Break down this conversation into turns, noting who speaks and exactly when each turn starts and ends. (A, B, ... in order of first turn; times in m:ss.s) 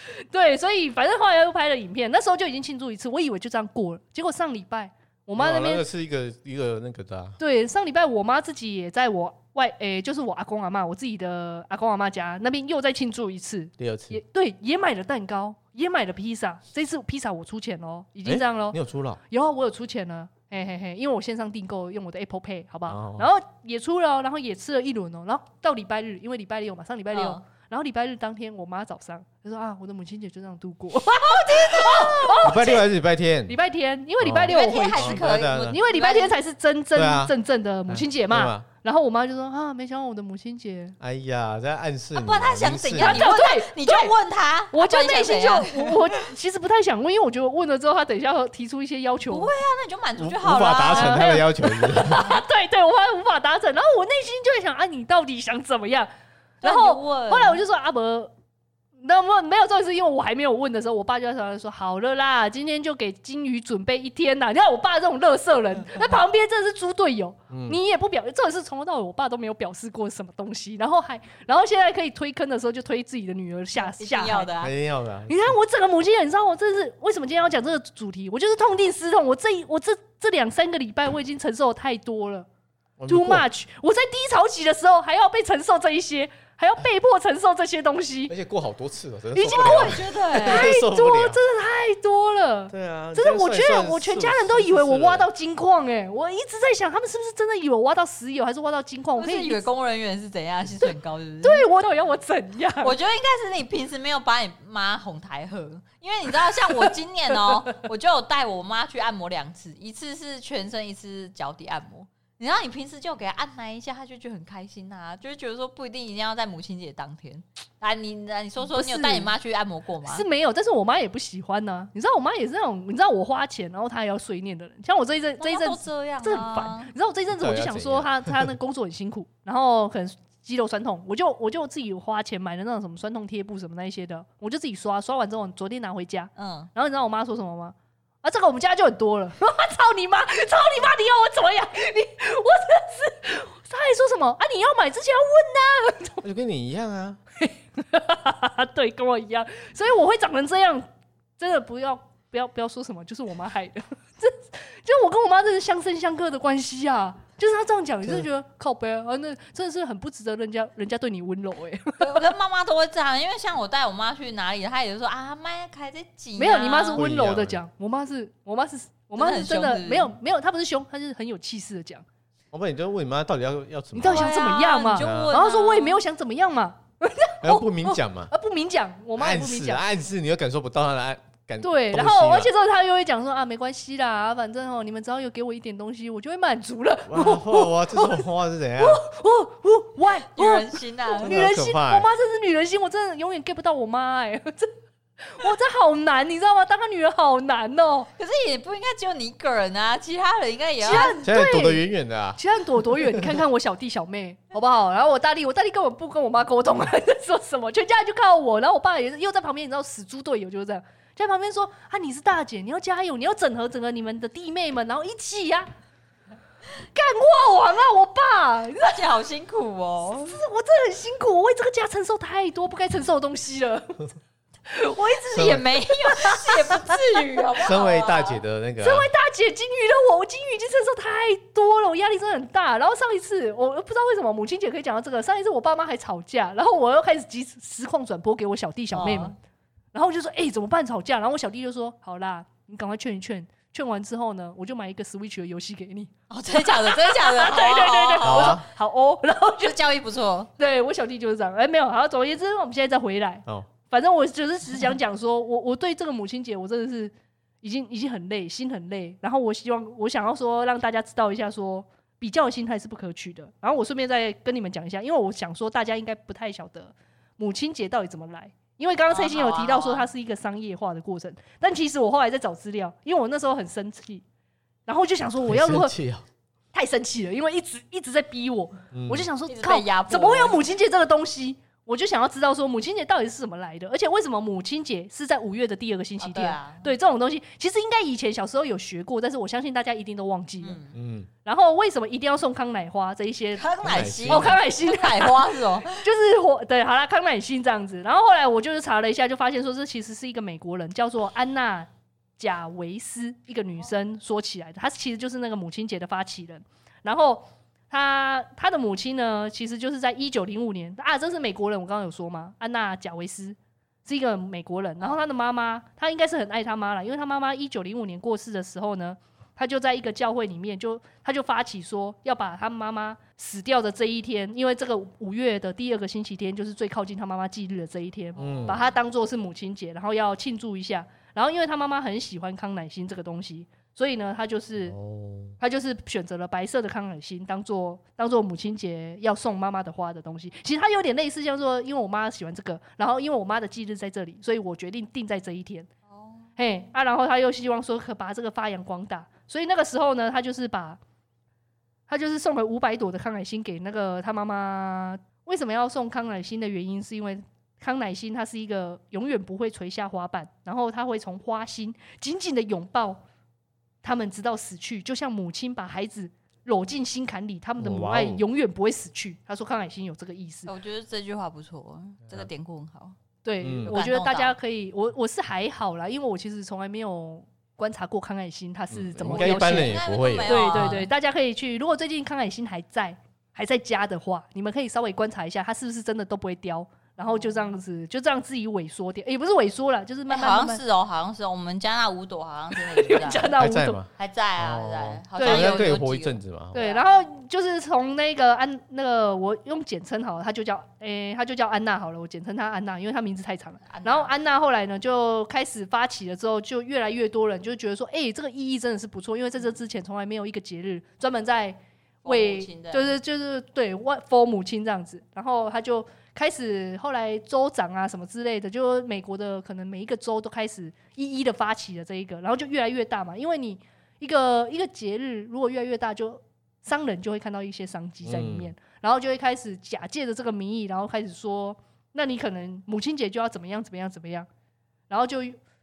0:00.3-0:05.8 A
0:05.4-0:07.4 B
0:07.4-0:18.8 A
0:13.8-0:14.2 B
0:18.2-0:19.2 B
0:19.3-0:32.8 A
0:22.9-0:23.3 B
0:27.1-0:27.4 C
0:31.0-0:32.6 C
0:32.4-0:33.6 B
0:33.5-0:41.0 A
0:34.2-0:35.8 B
0:34.5-0:36.4 C
0:37.0-0:37.3 B
0:37.9-0:38.6 B
0:41.0-0:43.3 B
0:42.2-0:46.2 C
0:43.0-0:44.2 A
0:44.7-0:49.5 A
0:49.3-0:51.4 C
0:50.2-0:52.3 B
0:50.9-0:56.1 A
0:56.6-0:57.6 C
0:56.6-0:58.3 A
0:59.0-1:14.5 A
1:07.5-1:07.8 B
1:13.8-1:14.7 C
1:14.6-1:15.4 B
1:15.3-1:22.5 A
1:23.0-1:23.5 B
1:23.1-1:28.3 A
1:28.3-1:31.4 B
1:29.3-1:39.6 A
1:29.5-1:30.7 C
1:32.7-1:35.3 B
1:39.2-1:41.7 C
1:41.4-1:43.0 A
1:42.8-2:00.2 C
1:58.6-1:59.3 A
2:00.1-2:26.2 A
2:05.4-2:06.9 C
2:07.4-2:08.5 B
2:16.4-2:16.7 C
2:26.2-2:27.2 B
2:27.4-2:30.9 A
2:31.4-2:42.3 A
2:42.0-2:47.0 C
2:46.4-2:52.0 A
2:47.0-2:47.6 B
2:49.2-2:50.1 C
2:52.5-2:54.3 B
2:53.9-2:59.8 A
2:54.1-2:56.0 C
2:55.0-2:55.4 B
2:57.4-2:58.3 B
2:59.2-3:02.5 B
3:01.6-3:08.2 A
3:07.1-3:09.0 B
3:08.8-3:14.7 A
3:10.3-3:11.4 C
3:11.2-3:12.1 B
3:15.2-3:18.1 A
3:18.2-3:21.2 C
3:20.8-3:21.8 A
3:21.2-3:22.4 B
3:22.4-3:35.7 A
3:36.9-3:39.0 A
3:38.8-3:40.4 C
3:40.2-3:44.1 A
3:44.7-3:47.1 A
3:45.3-3:48.4 C
3:45.3-3:45.6 B
3:47.6-3:49.1 B
3:48.8-3:59.4 A
3:58.9-3:59.4 C
3:59.9-4:09.8 A
4:06.3-4:08.6 C
4:08.2-4:08.6 B
4:09.6-4:10.5 C
4:10.6-4:34.2 A
4:29.1-4:30.1 C
4:34.9-4:35.9 A
4:35.4-4:36.2 B
4:36.7-4:50.8 A
4:38.9-4:39.3 B
4:39.5-4:40.6 C
4:46.2-4:46.9 C
4:50.6-4:51.0 C
4:50.9-4:51.3 B
4:51.4-4:53.7 A
4:53.6-4:56.0 C
4:53.8-4:54.6 B
4:54.3-5:35.0 A
5:28.4-5:28.8 B
5:34.8-5:35.5 B
5:35.6-5:45.9 A
5:46.1-5:46.5 C
5:46.6-5:51.0 A
5:52.1-6:03.2 A
6:04.0-6:10.7 A
6:07.8-6:08.4 B
6:10.7-6:13.2 C
6:13.4-6:30.8 A
6:13.6-6:13.9 B
6:13.9-6:14.6 C
6:18.9-6:21.0 B
6:19.2-6:21.1 C
6:27.3-6:27.6 C
6:30.3-6:33.5 C
6:32.7-6:34.0 A
6:33.6-6:36.8 B
6:34.2-6:37.1 C
6:35.4-6:35.9 A
6:36.7-7:14.5 A
6:43.9-6:44.3 C
6:52.2-6:53.2 C
7:08.2-7:08.7 B
7:15.1-7:15.6 A